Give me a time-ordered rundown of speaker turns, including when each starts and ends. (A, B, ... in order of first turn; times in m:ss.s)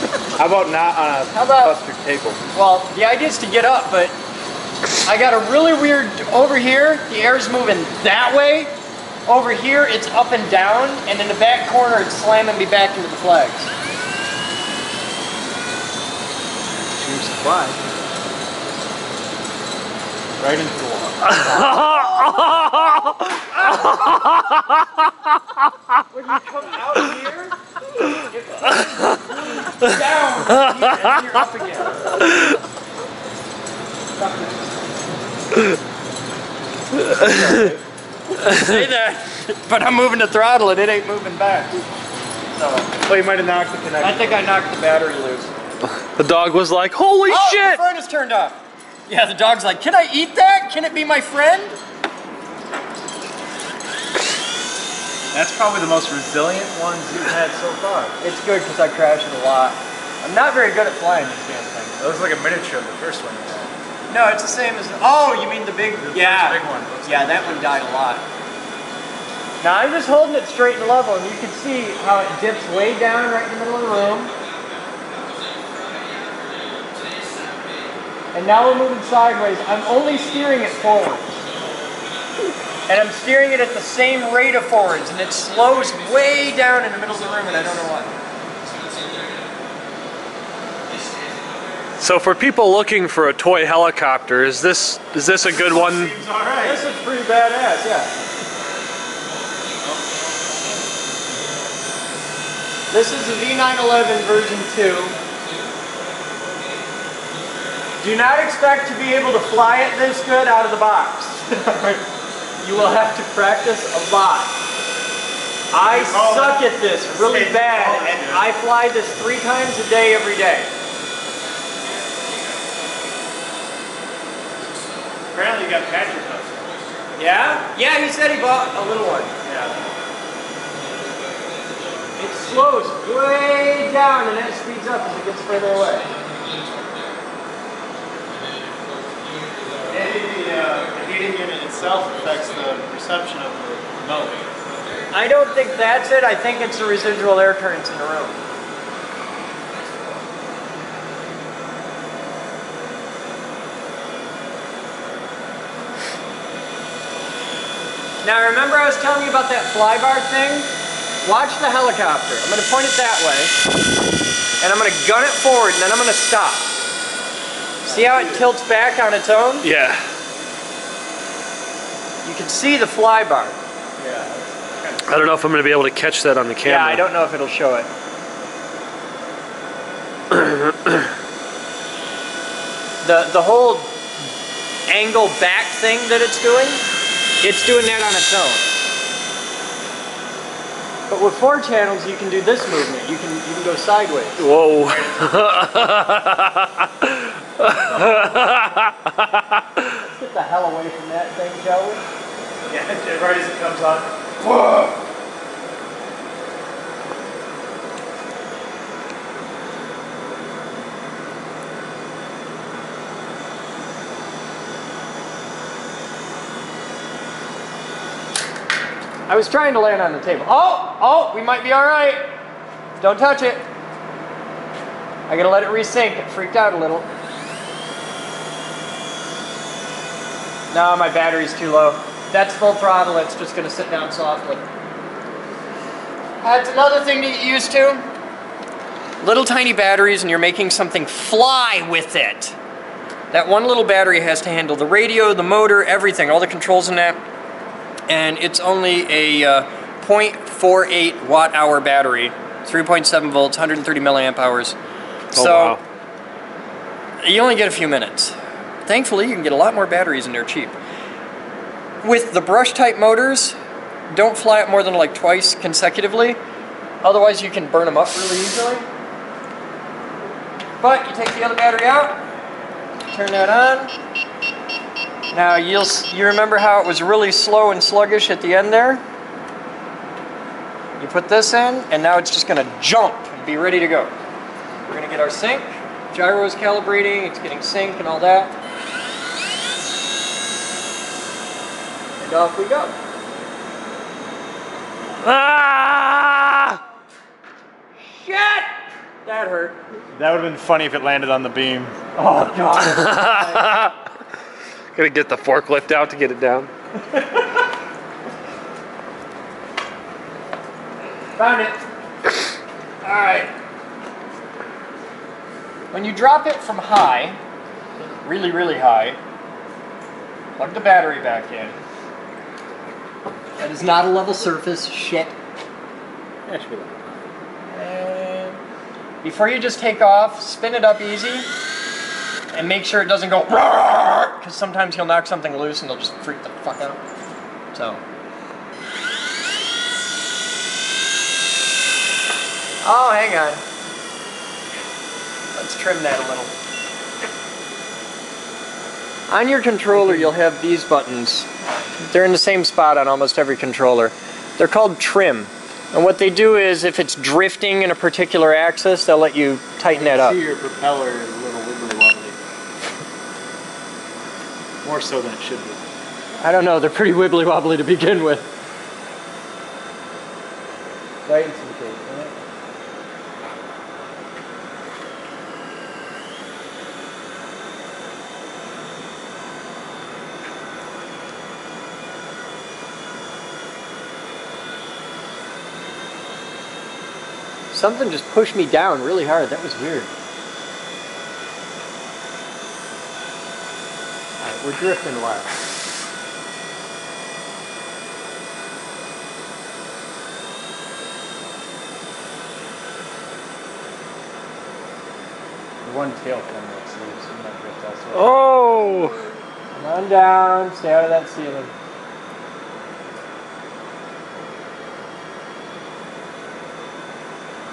0:00.2-0:02.4 A
0:01.3-0:01.7 B
0:02.5-0:04.2 B
0:05.0-0:08.7 B
0:09.2-0:13.7 B
0:17.0-0:17.8 A
0:20.4-0:21.3 A
0:21.3-0:24.3 B
0:21.7-0:22.2 C
0:26.1-0:27.6 B
0:28.1-0:32.2 B
0:34.2-0:34.5 B
0:37.2-0:37.8 B
0:38.4-0:41.8 B
0:42.6-0:42.9 B
0:42.9-0:44.4 A
0:44.0-0:45.5 B
0:46.1-0:47.8 C
0:47.3-0:51.8 B
0:55.3-0:58.2 A
0:58.2-1:01.9 B
1:01.9-1:03.7 A
1:04.1-1:08.2 B
1:06.0-1:07.7 A
1:09.6-1:14.3 B
1:18.3-1:21.4 B
1:22.9-1:28.1 B
1:32.0-1:36.2 C
1:35.5-1:36.8 A
1:36.6-1:38.1 B
1:42.9-1:45.2 B
1:48.0-1:52.0 B
1:52.6-1:54.6 B
1:55.7-2:00.7 B
1:55.8-1:58.4 A
2:05.3-2:06.7 A
2:07.2-2:09.3 B
2:09.4-2:09.8 A
2:10.8-2:12.1 C
2:12.2-2:16.1 B
2:16.1-2:17.1 C
2:18.6-2:20.1 C
2:19.9-2:24.5 A
2:20.7-2:21.3 C
2:21.8-2:22.6 C
2:24.6-2:25.1 C
2:25.1-2:28.4 B
2:38.2-2:40.7 B
2:41.2-2:43.6 B
2:44.6-2:46.7 B
2:47.8-2:48.4 A
2:47.8-2:49.7 B
2:49.6-2:50.0 C
2:52.2-2:53.6 B
2:54.0-2:55.1 A
2:55.0-2:57.0 C
2:56.6-2:57.9 B
3:03.0-3:04.0 B
3:04.9-3:06.8 B
3:07.4-3:08.7 B
3:11.1-3:14.4 B
3:14.4-3:19.8 C
3:14.7-3:15.3 A
3:20.0-3:22.0 B
3:22.6-3:24.1 A
3:24.4-3:25.0 B
3:39.3-3:42.3 B
3:43.0-3:43.7 B
3:45.3-3:47.1 B
3:50.7-3:54.6 B
3:56.4-3:58.1 B
3:59.2-4:02.6 B
4:03.3-4:07.2 B
4:08.1-4:14.8 B
4:15.3-4:15.8 B
4:15.3-4:15.8 C
4:17.2-4:20.8 B
4:22.0-4:23.6 B
4:24.1-4:26.4 B
4:27.0-4:28.9 B
4:30.8-4:32.2 B
4:33.1-4:33.9 B
4:35.3-4:39.0 B
4:41.0-4:44.1 B
4:44.9-4:48.6 B
4:52.2-4:53.0 B
4:55.2-4:56.8 C
4:58.1-4:58.7 B
4:59.2-4:59.8 B
5:00.1-5:02.0 A
5:02.2-5:03.9 B
5:02.9-5:03.9 C
5:04.9-5:06.7 C
5:11.4-5:11.8 B
5:13.0-5:13.5 B
5:15.9-5:17.4 B
5:18.2-5:19.2 B
5:20.6-5:21.8 B
5:23.6-5:25.3 B
5:26.4-5:27.0 A
5:27.7-5:28.6 B
5:29.2-5:31.5 B
5:32.5-5:37.0 B
5:37.7-5:38.0 B
5:42.8-5:43.6 B
5:45.5-5:46.5 B
5:49.3-6:00.4 B
5:49.9-5:50.3 A
5:59.9-6:02.4 A
6:04.8-6:05.9 A
6:06.4-6:08.5 B
6:11.3-6:12.3 B
6:11.9-6:12.2 A
6:27.7-6:30.1 B
6:34.4-6:35.6 B
6:45.8-6:48.4 A
6:48.1-6:49.3 C
6:49.7-6:51.7 B